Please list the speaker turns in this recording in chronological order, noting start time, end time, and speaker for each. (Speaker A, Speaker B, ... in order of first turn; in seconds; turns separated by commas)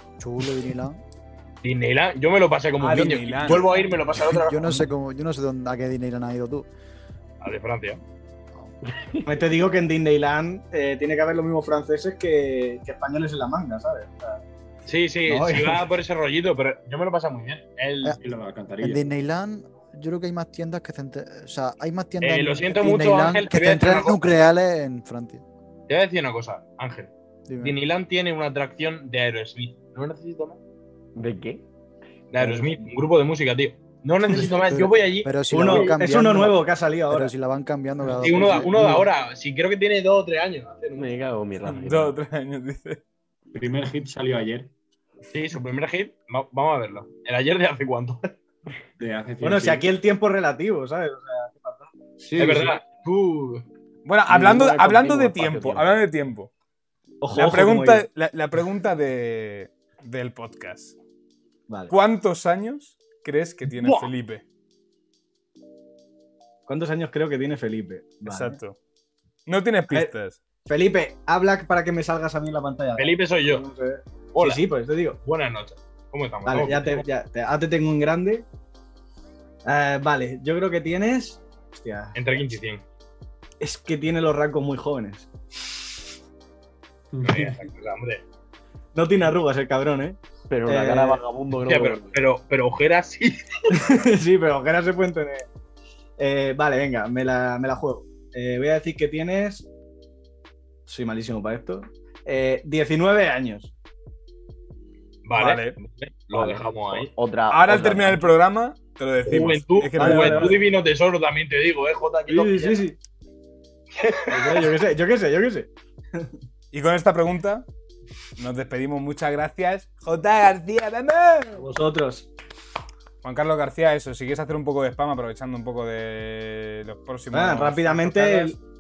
Speaker A: 0.2-1.0, Speaker B: 1.6-4.9, Speaker C: 2.8-3.8, Speaker A: 4.2-6.7, Speaker B: 7.4-8.0, Speaker D: 8.9-9.3, Speaker E: 9.2-14.4, Speaker B: 14.9-18.2, Speaker E: 15.3-15.9, Speaker F: 18.2-19.1, Speaker A: 18.8-25.4, Speaker B: 22.2-24.5, Speaker B: 25.9-30.6, Speaker A: 27.5-27.8, Speaker D: 31.1-31.6, Speaker B: 32.3-35.9, Speaker D: 32.4-32.7, Speaker A: 34.3-39.0, Speaker E: 35.5-37.3, Speaker F: 38.0-39.0, Speaker B: 38.2-41.2, Speaker D: 41.0-42.1, Speaker C: 41.6-43.0, Speaker F: 43.5-44.7, Speaker B: 45.3-48.3, Speaker F: 49.0-49.9, Speaker E: 49.4-52.7, Speaker F: 52.3-52.7, Speaker B: 52.4-53.7, Speaker C: 54.0-56.5, Speaker D: 54.3-56.0, Speaker E: 57.2-58.1, Speaker C: 57.3-61.0, Speaker E: 61.7-61.9, Speaker C: 61.9-64.4, Speaker E: 66.7-68.6, Speaker C: 68.3-68.8, Speaker C: 69.5-70.4, Speaker E: 70.7-75.2, Speaker B: 73.0-73.7, Speaker B: 74.3-74.7, Speaker B: 75.2-76.9, Speaker E: 76.5-78.5, Speaker E: 79.7-82.2, Speaker B: 82.2-82.8, Speaker E: 83.6-85.3, Speaker F: 87.1-87.6, Speaker B: 87.2-88.2, Speaker E: 89.0-91.2, Speaker D: 90.5-92.2, Speaker B: 91.7-94.1, Speaker E: 93.7-95.5, Speaker E: 96.2-99.7, Speaker E: 100.9-103.7, Speaker B: 105.2-107.1, Speaker C: 105.3-105.8, Speaker D: 106.3-108.3, Speaker C: 107.5-110.6, Speaker B: 109.3-112.8, Speaker E: 110.0-110.6, Speaker E: 112.3-113.0, Speaker B: 114.0-114.8, Speaker E: 114.3-116.3, Speaker C: 116.7-117.7, Speaker C: 118.4-121.7, Speaker E: 121.6-122.3, Speaker C: 123.2-128.6, Speaker E: 127.3-128.6